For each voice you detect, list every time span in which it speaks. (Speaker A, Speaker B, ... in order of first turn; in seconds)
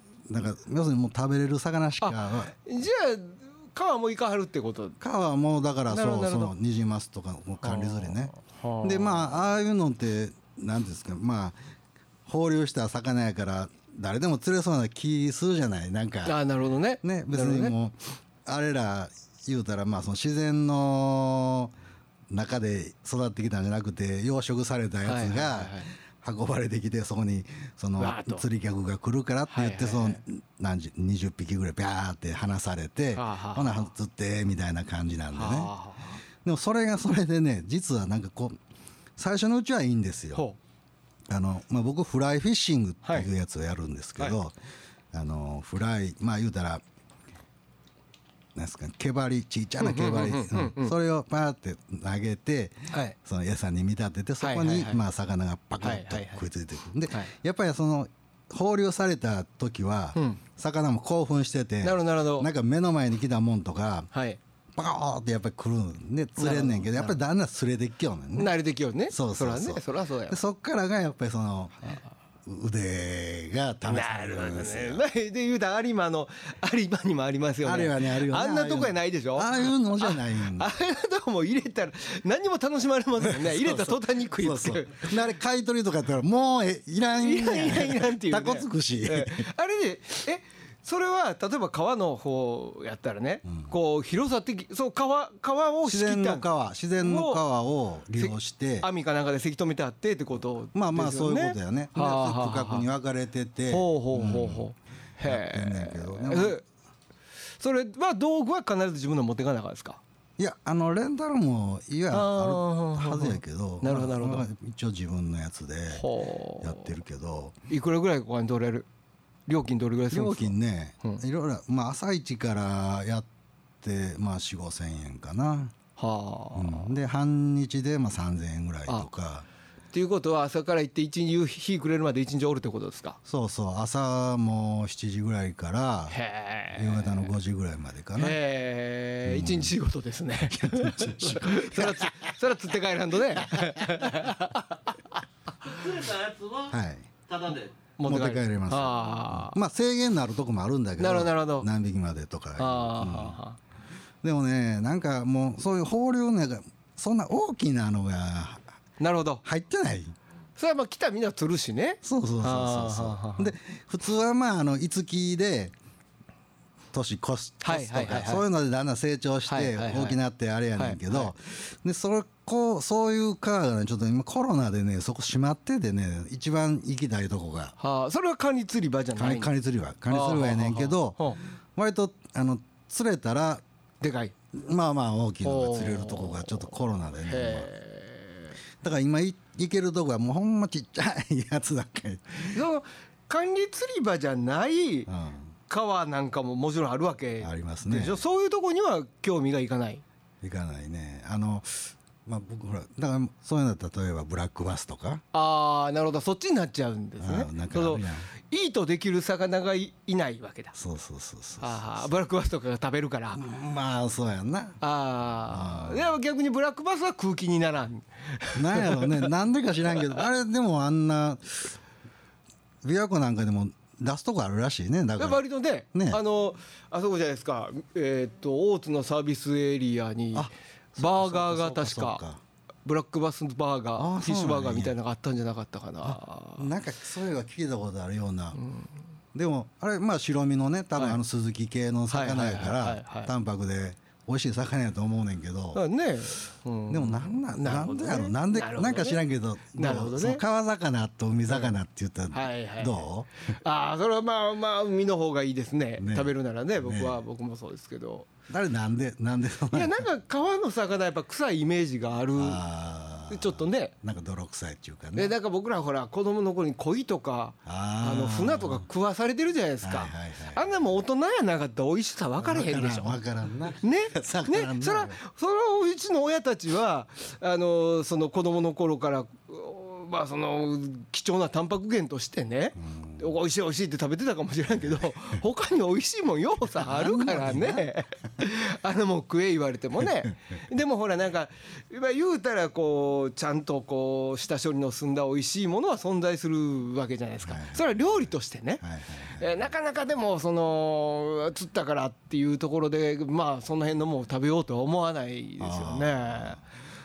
Speaker A: 0.3-2.5, 5.0-11.6, 12.3-16.4, 17.0-21.7, 22.3-35.7, 36.4-38.6, 39.2-40.5, 41.3-44.5, 45.1-46.8, 48.5-64.1, 64.8-68.6, 69.1-75.0, 77.6-80.7, 83.2-89.5, 95.8-98.9, 100.8-104.7, 105.2-106.6, 110.4-116.1, 116.6-117.6, 120.1-123.3, 123.8-125.7, 126.5-129.5, 133.3-136.2, 136.7-138.4, 139.2-139.8, 140.5-142.3, 143.3-144.1, 146.7-147.1, 148.1-153.4, 154.2-158.7, 159.4-160.2, 162.0-165.7, 166.9-177.7, 179.2-183.6, 184.5-187.7, 188.8-192.6, 195.1-195.5, 197.4-198.2, 200.4-205.2, 207.2-208.3, 210.8-212.1, 213.3-214.8, 215.5-216.1, 218.6-221.8, 222.8-225.4, 225.9-226.2, 230.3-232.4, 234.0-234.9, 236.0-238.6, 239.3-245.8, 246.9-253.3, 256.0-257.2, 258.5-260.0, 262.4-265.4, 267.6-268.9, 269.8-270.8, 272.4-275.2, 282.8-283.2, 284.7-285.0, 286.7-287.9, 290.0-290.3, 297.5-299.6, 305.6-306.6
Speaker B: 2.0-5.0, 5.9-6.5, 7.6-9.4, 16.2-17.8, 25.1-25.9, 28.0-28.4, 29.5-30.2, 33.1-33.9, 35.3-36.2, 49.8-50.9, 52.9-53.2, 54.4-55.0, 55.8-56.5, 60.1-60.4, 61.8-62.5, 64.1-64.4, 66.4-67.2, 68.3-70.4, 73.9-85.1, 87.2-96.5, 97.0-97.4, 98.2-102.9, 103.7-106.6, 107.6-110.0, 112.1-114.5, 115.9-116.9, 117.7-118.9, 119.5-121.2, 126.0-126.9, 129.9-133.2, 136.1-137.3, 138.2-144.9, 148.0-149.6, 151.0-151.7, 152.6-153.6, 159.0-159.4, 160.6-163.5, 167.6-168.4, 169.5-170.2, 170.8-171.3, 177.8-179.5, 180.1-181.4, 184.0-184.3, 185.4-186.7, 187.2-188.6, 192.4-195.1, 195.7-200.0, 205.3-210.8, 211.6-213.4, 214.8-219.3, 225.2-232.2, 232.8-236.7, 238.6-238.9, 242.1-243.3, 245.8-249.2, 249.7-250.4, 252.3-258.3, 259.7-262.6, 263.3-263.9, 265.1-273.2, 273.7-298.8, 299.4-306.6
Speaker C: 145.6-147.8